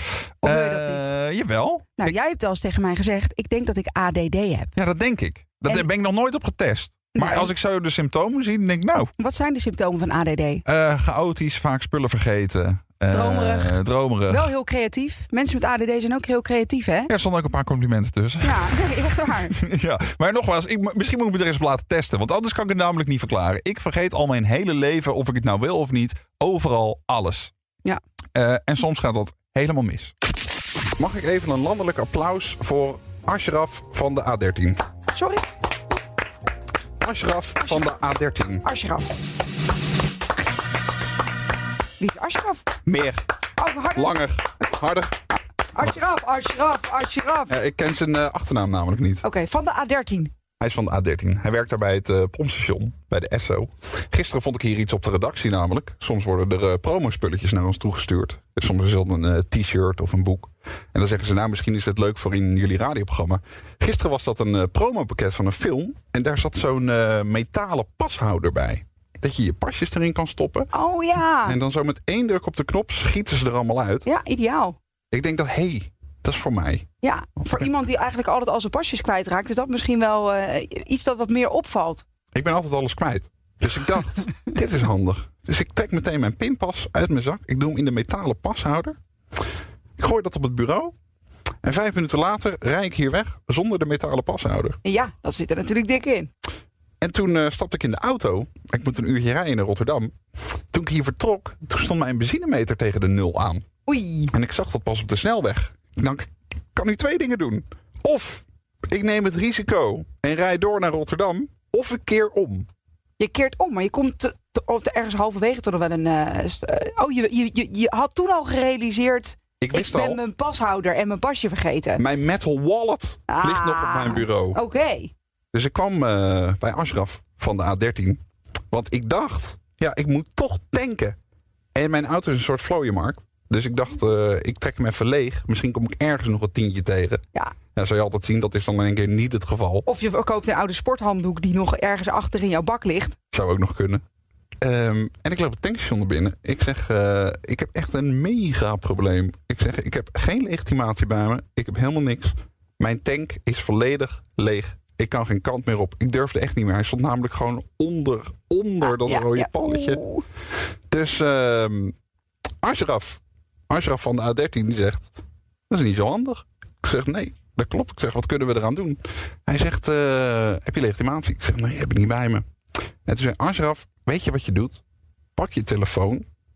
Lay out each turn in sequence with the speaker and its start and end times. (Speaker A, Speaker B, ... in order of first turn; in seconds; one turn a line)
Speaker A: 0.4-1.1
Speaker B: 0.4-2.1
Speaker A: 2.0-4.7
Speaker B: 4.8-9.1
Speaker A: 7.1-7.5
Speaker A: 9.2-10.6
Speaker B: 10.7-14.5
Speaker A: 13.1-17.1
Speaker B: 17.1-18.7
Speaker A: 18.4-19.6
Speaker B: 19.5-27.5
Speaker B: 28.3-30.1
Speaker B: 31.0-34.8
Speaker A: 35.1-35.5
Speaker B: 37.0-38.6
Speaker A: 38.6-39.1
Speaker A: 42.0-42.7
Speaker B: 42.8-43.2
Speaker A: 43.6-44.1
Speaker B: 43.9-45.2
Speaker A: 45.7-47.5
Speaker B: 47.5-49.2
Speaker A: 49.2-50.3
Speaker B: 50.6-70.7
Speaker A: 70.7-71.6
Speaker B: 71.4-74.0
Speaker A: 74.0-74.8
Speaker B: 75.1-76.9
Speaker A: 77.0-82.0
Speaker B: 82.3-89.0
Speaker B: 90.0-90.9
Speaker B: 91.6-94.8
Speaker A: 94.8-96.3
Speaker B: 97.0-100.1
Speaker B: 100.7-103.6
Speaker A: 103.9-104.3
Speaker B: 104.3-112.7
Speaker A: 113.2-122.0
Speaker B: 119.6-120.2
Speaker B: 122.0-124.6
Speaker A: 123.3-125.1
Speaker B: 125.5-131.2
Speaker B: 131.7-137.2
Speaker B: 137.7-139.9
Speaker A: 139.8-143.2
Speaker B: 143.3-144.0
Speaker B: 144.6-160.0
Speaker A: 158.8-160.2
Speaker B: 160.9-161.9
Speaker B: 162.6-165.1
Speaker B: 165.7-172.4
Speaker B: 173.1-174.8
Speaker B: 175.4-176.2